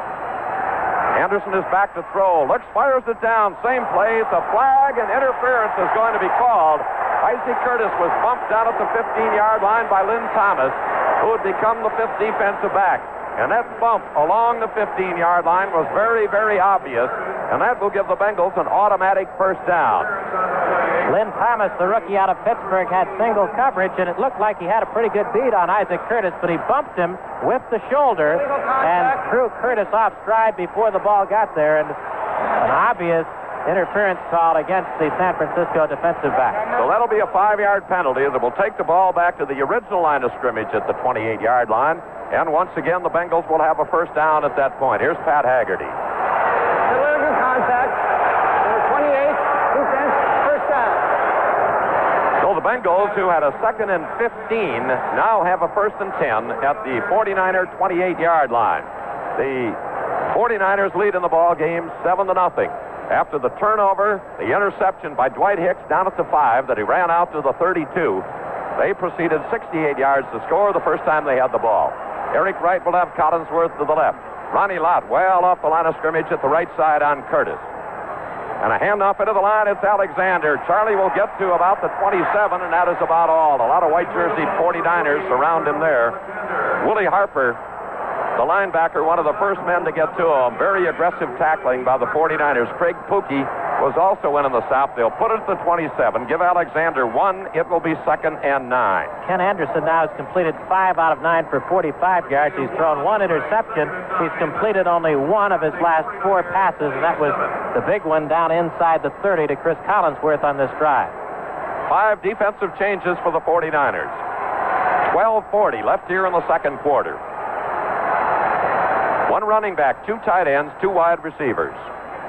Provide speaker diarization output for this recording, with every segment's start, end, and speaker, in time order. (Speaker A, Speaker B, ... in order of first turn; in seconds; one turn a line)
Speaker A: 1.1-20.1
Speaker B: 21.1-31.9
Speaker B: 32.6-36.6
Speaker A: 36.8-45.9
Speaker C: 46.9-48.0
Speaker C: 48.6-51.0
Speaker A: 52.4-59.8
Speaker A: 60.3-68.2
Speaker A: 68.8-77.6
Speaker A: 78.6-86.2
Speaker A: 86.8-87.6
Speaker A: 88.3-99.1
Speaker B: 99.2-111.1
Speaker A: 111.9-114.2
Speaker A: 115.0-117.2
Speaker A: 119.2-121.8